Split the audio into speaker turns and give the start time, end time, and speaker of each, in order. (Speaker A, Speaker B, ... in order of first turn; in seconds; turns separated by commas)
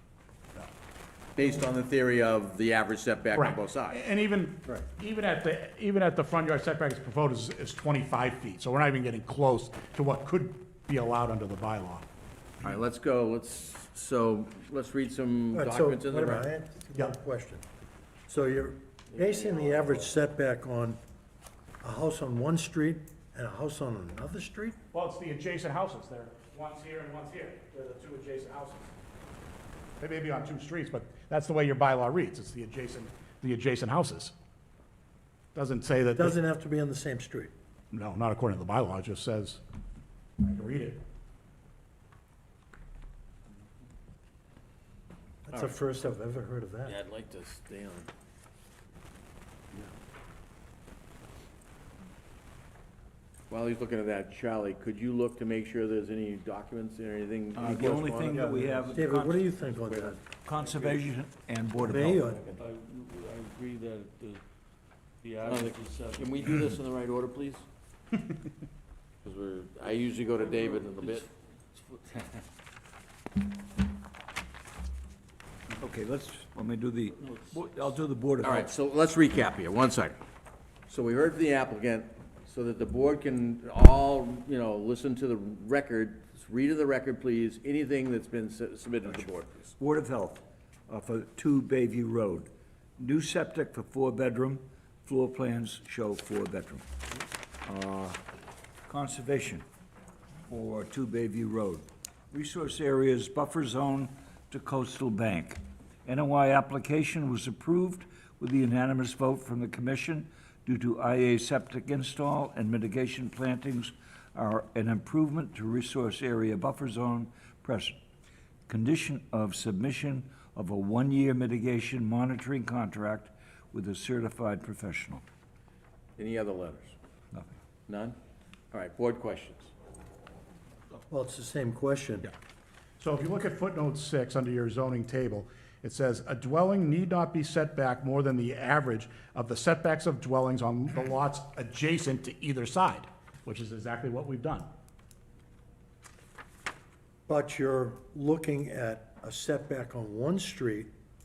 Speaker A: 1.4-4.0, Speaker B: 3.3-12.1, Speaker A: 12.6-16.5, Speaker C: 15.5-17.6, Speaker C: 18.3-21.0, Speaker A: 19.1-20.1, Speaker C: 21.8-24.8, Speaker B: 24.9-28.9, Speaker B: 30.0-34.3, Speaker B: 35.5-36.4, Speaker C: 36.1-37.5, Speaker B: 37.9-39.6, Speaker B: 40.4-41.0, Speaker C: 45.5-47.0, Speaker A: 46.9-48.1, Speaker A: 53.5-58.5, Speaker D: 57.5-62.2, Speaker C: 58.4-60.2, Speaker C: 61.8-62.6, Speaker E: 62.6-64.4, Speaker E: 65.2-66.4, Speaker A: 65.5-67.7, Speaker A: 69.2-71.3, Speaker E: 71.8-72.3, Speaker D: 75.8-78.7, Speaker A: 78.4-80.2, Speaker A: 80.9-89.8, Speaker D: 89.8-96.8, Speaker D: 97.7-98.2, Speaker D: 98.8-99.7, Speaker D: 100.5-118.0, Speaker D: 118.7-125.2, Speaker A: 126.2-127.0, Speaker A: 127.9-128.2, Speaker A: 128.7-129.7, Speaker C: 131.1-132.3, Speaker B: 133.0-144.7, Speaker C: 147.3-150.9